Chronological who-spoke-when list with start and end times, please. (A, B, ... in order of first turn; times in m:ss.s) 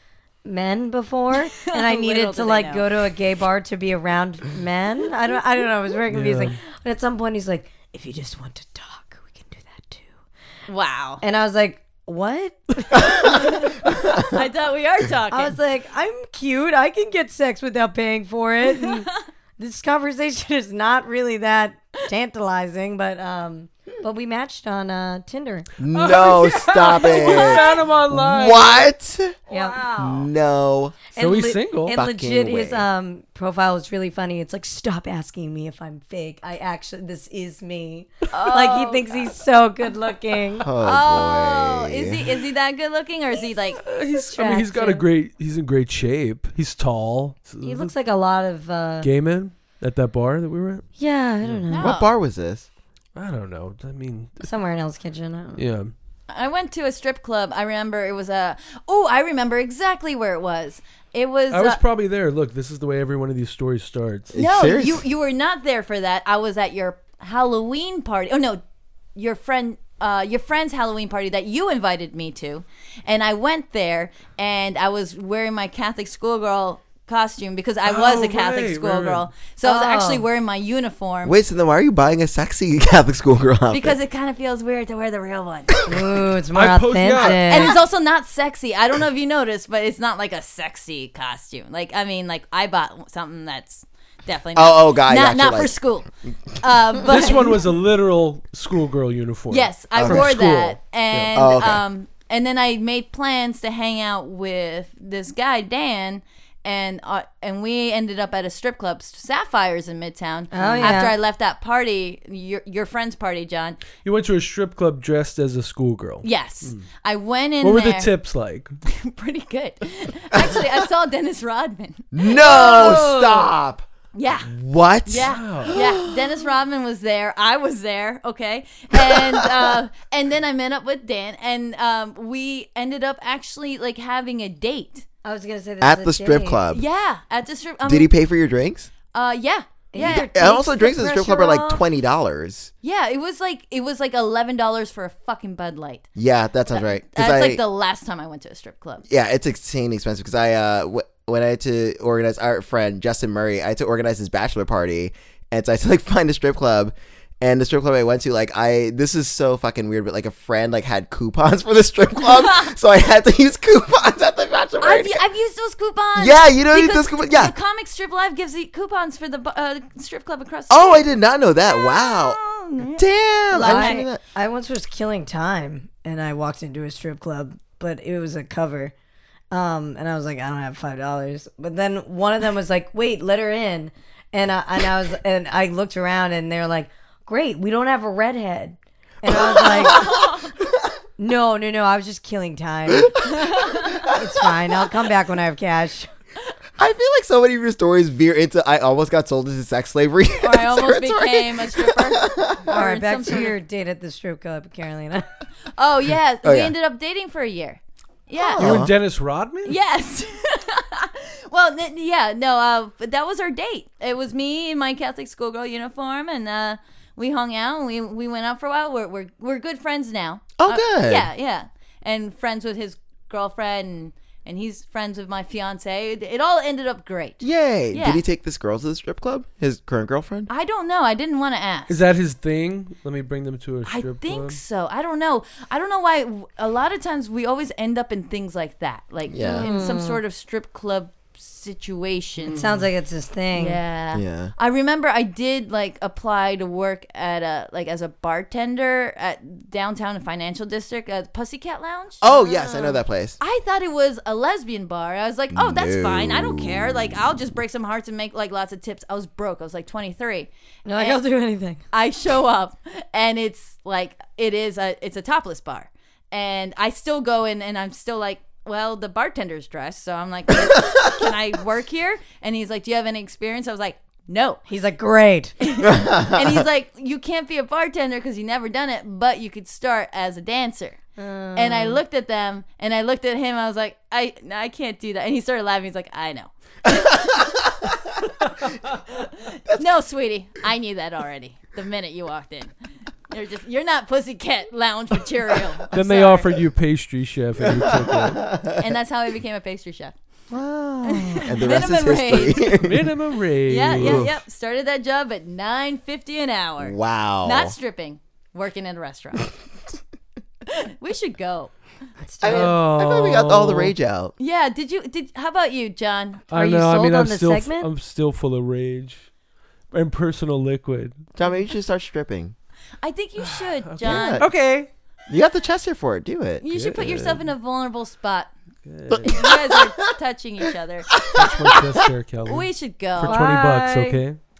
0:00.4-0:10.1 A
0:01.5-0:02.9 B
0:06.1-0:06.6 C
0:10.7-0:11.2 B
0:11.2-0:14.2 A
0:13.0-0:15.6 B
0:14.0-0:14.3 D
0:15.3-0:25.7 A
0:25.8-0:31.0 D
0:25.9-0:28.9 C
0:29.5-0:30.3 A
0:31.1-0:40.7 A
0:31.2-0:32.0 C
0:31.9-0:32.9 D
0:38.3-0:39.3 B
0:40.6-0:42.3 D
0:40.8-0:43.8 B
0:43.8-0:47.9 C
0:44.1-0:45.0 A
0:47.6-0:49.1 A
0:49.0-0:50.9 C
0:51.0-0:52.0 A
0:51.7-0:52.1 B
0:51.8-0:52.7 D
0:53.1-0:54.4 C
0:54.4-0:55.6 A
0:55.6-0:55.9 C
0:56.3-1:01.8 B
1:01.5-1:04.4 C
1:04.3-1:05.0 D
1:04.4-1:08.6 B
1:09.1-1:21.4 B
1:17.8-1:19.3 C
1:19.6-1:20.2 A
1:21.2-1:24.0 D
1:23.7-1:25.8 B
1:25.9-1:27.8 A
1:26.5-1:27.8 C
1:27.2-1:36.1 B
1:34.6-1:35.8 D
1:36.6-1:37.6 B
1:37.0-1:41.4 C
1:39.5-1:53.8 B
1:39.9-1:40.4 D
1:41.3-1:41.8 D
1:50.5-1:51.2 A
1:50.6-1:51.0 C
1:54.0-1:56.9 C
1:56.2-1:58.1 B
1:57.6-1:58.7 C
1:58.9-2:03.5 B
2:02.1-2:06.4 D
2:04.1-2:04.5 B
2:05.0-2:15.0 B
2:05.2-2:05.8 C
2:09.0-2:09.6 D
2:15.2-2:16.6 A
2:15.8-2:16.8 D
2:16.7-2:18.1 B
2:17.8-2:18.9 D
2:19.1-2:20.5 B
2:19.9-2:21.8 A
2:20.0-2:22.7 D
2:22.8-2:26.1 B
2:26.2-2:27.6 D
2:26.7-2:29.0 B
2:29.1-2:45.2 D
2:44.8-2:51.1 B
2:46.2-2:47.5 D
2:50.7-2:54.2 D
2:51.6-2:54.0 B
2:53.5-2:58.9 A
2:59.5-3:10.1 A
3:09.3-3:10.5 D
3:09.8-3:10.5 B
3:11.2-3:16.1 A
3:13.2-3:14.1 B
3:16.8-3:22.8 D
3:20.4-3:23.5 B
3:22.6-3:25.3 A
3:25.7-3:28.8 B
3:26.4-3:26.7 D
3:28.6-3:29.8 C
3:28.6-3:28.9 D
3:29.6-3:48.2 B
3:40.6-3:41.3 D
3:47.4-3:50.5 D
3:50.5-3:52.0 B
3:51.9-3:54.6 C
3:53.9-4:02.7 B
3:59.3-3:59.7 D
3:59.6-4:00.2 A
4:02.4-4:03.8 A
4:03.5-4:21.2 B
4:04.1-4:04.5 D
4:12.2-4:13.4 D
4:12.4-4:12.9 A
4:15.5-4:17.0 D
4:20.9-4:21.8 A
4:21.9-4:34.6 B
4:34.7-4:35.6 A
4:35.6-4:41.0 B
4:35.8-4:36.6 D
4:41.2-4:42.0 A
4:41.6-4:47.4 B
4:46.9-4:48.2 D
4:49.2-4:52.7 B
4:53.3-4:56.5 B
4:55.9-4:58.4 C
4:57.7-4:58.8 D
4:58.8-5:00.1 B
5:00.5-5:03.2 D
5:01.0-5:02.7 B
5:02.7-5:04.3 C
5:03.7-5:09.5 B
5:03.9-5:04.4 D
5:06.8-5:07.8 D
5:10.7-5:11.7 B
5:12.2-5:12.7 A
5:12.4-5:14.3 D
5:12.4-5:13.9 C
5:14.4-5:17.1 B
5:16.5-5:19.3 C
5:16.9-5:17.9 A
5:19.9-5:21.2 C
5:21.4-5:22.6 D
5:23.0-5:24.5 B
5:23.4-5:24.9 C
5:24.0-5:24.5 D
5:25.3-5:26.6 D
5:26.6-5:28.5 B
5:26.7-5:27.5 C
5:28.8-5:29.4 C
5:29.1-5:30.0 D
5:29.2-5:31.1 B
5:31.1-5:32.0 D
5:31.3-5:34.4 C
5:32.5-5:33.5 B
5:33.2-5:34.2 A